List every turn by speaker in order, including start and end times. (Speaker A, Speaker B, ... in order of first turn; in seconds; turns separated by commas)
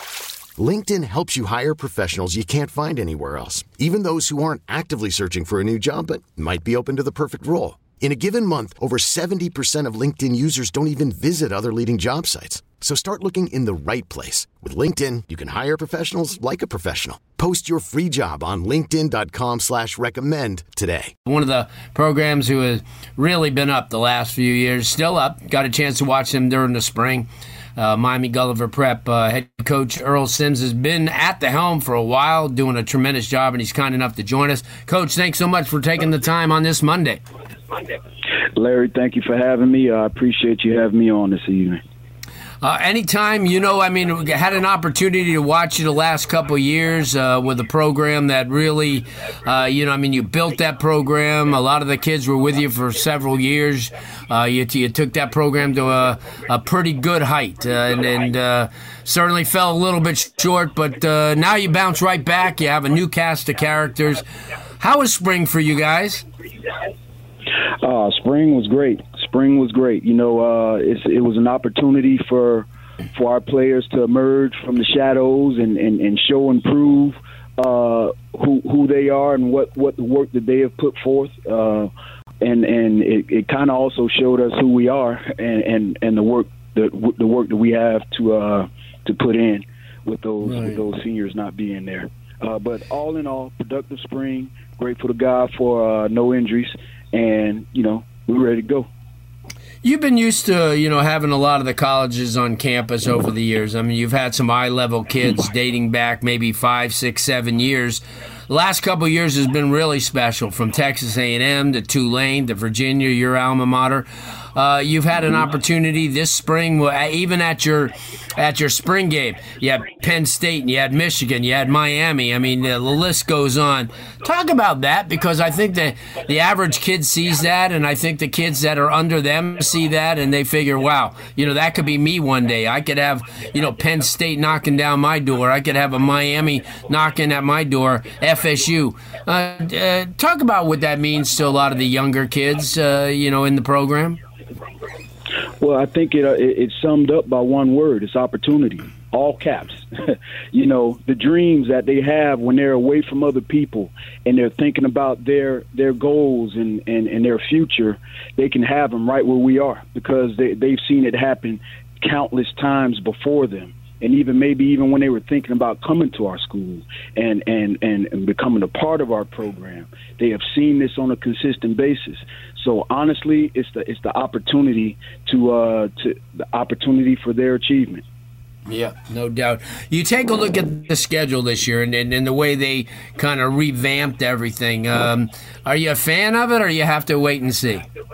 Speaker A: 0.6-21.1, Speaker B: 21.2-37.2, Speaker C: 38.6-41.8, Speaker B: 42.6-64.2, Speaker B: 64.8-66.3, Speaker C: 67.8-81.9, Speaker C: 82.4-98.9, Speaker B: 90.4-90.8, Speaker B: 99.8-144.2, Speaker C: 145.6-178.0, Speaker B: 178.7-187.9